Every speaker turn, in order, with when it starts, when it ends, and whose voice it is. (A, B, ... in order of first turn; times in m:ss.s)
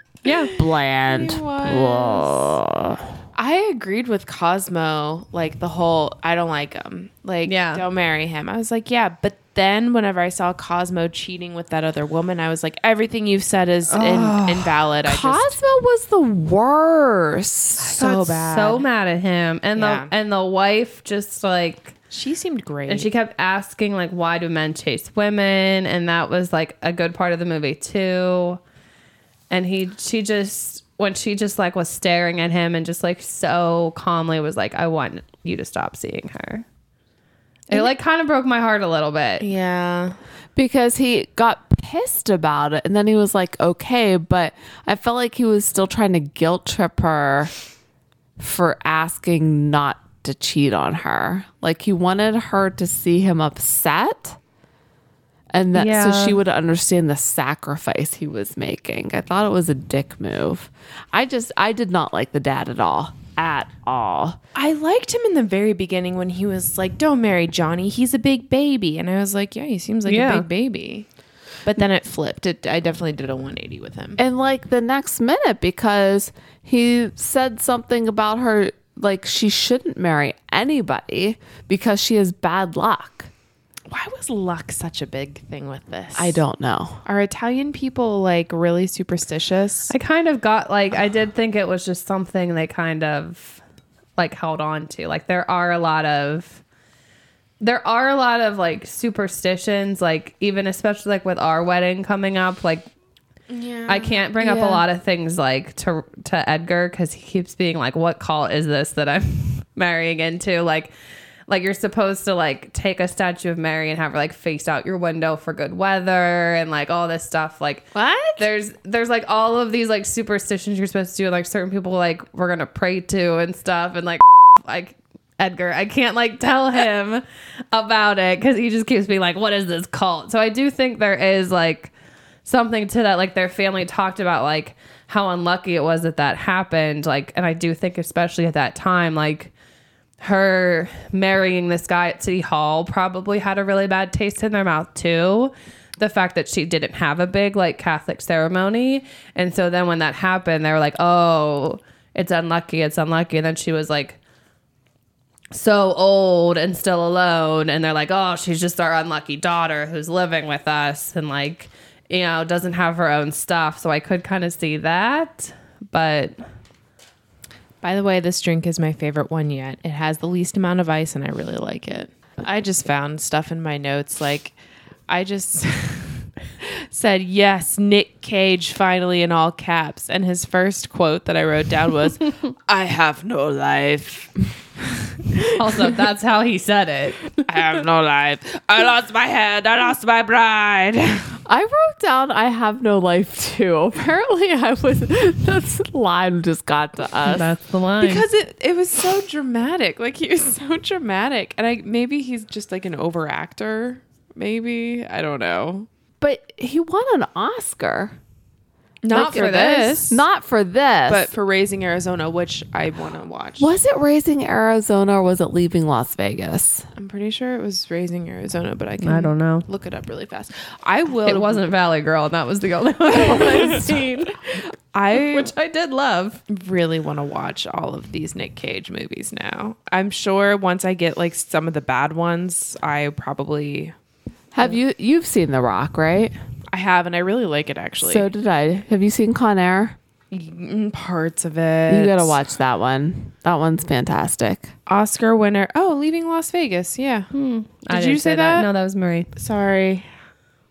0:00.2-0:00.5 A
0:00.2-0:02.6 B
0:00.5-0:03.0 C
0:03.3-0:15.6 B
0:07.4-0:07.8 A
0:13.9-0:14.7 A
0:15.0-0:18.0 C
0:17.8-0:21.9 A
0:17.9-0:18.8 B
0:19.7-0:20.1 B
0:22.1-0:23.1 B
0:22.9-0:28.6 A
0:29.5-0:36.6 A
0:37.7-0:39.4 A
0:39.4-0:40.2 B
0:40.6-0:47.5 C
0:48.4-0:54.4 C
0:55.5-1:04.4 C
0:55.7-0:56.4 A
1:04.5-1:11.1 B
1:10.0-1:10.4 A
1:11.6-1:14.2 B
1:14.2-1:23.3 C
1:23.9-1:26.4 B
1:26.2-1:27.0 C
1:27.0-1:29.9 B
1:29.9-1:33.6 A
1:34.2-1:36.6 A
1:37.6-1:42.8 A
1:43.5-1:44.8 B
1:43.9-1:50.9 A
1:51.5-2:11.9 A
1:57.9-1:58.4 B
2:12.4-2:19.5 A
2:20.2-2:34.2 A
2:35.5-2:46.4 A
2:47.8-2:54.5 B
2:55.1-3:04.3 B
3:05.5-3:07.4 A
3:07.5-3:11.2 B
3:11.5-3:17.5 C
3:17.2-3:18.2 A
3:18.0-3:25.9 B
3:26.2-3:28.2 C
3:29.0-3:30.2 B
3:29.1-3:30.0 A
3:29.1-3:31.3 C
3:31.1-3:33.7 B
3:33.6-3:36.9 C
3:37.0-3:41.6 B
3:39.0-3:39.6 A
3:41.2-3:44.5 A
3:44.9-3:45.5 B
3:45.1-3:46.4 A
3:46.5-3:53.9 B
3:54.5-3:56.3 C
3:56.7-3:58.3 B
3:58.0-4:00.0 C
4:00.3-4:02.4 B
4:01.9-4:04.7 C
4:04.9-4:07.3 B
4:07.3-4:09.3 A
4:07.9-4:08.6 B
4:09.4-4:10.1 B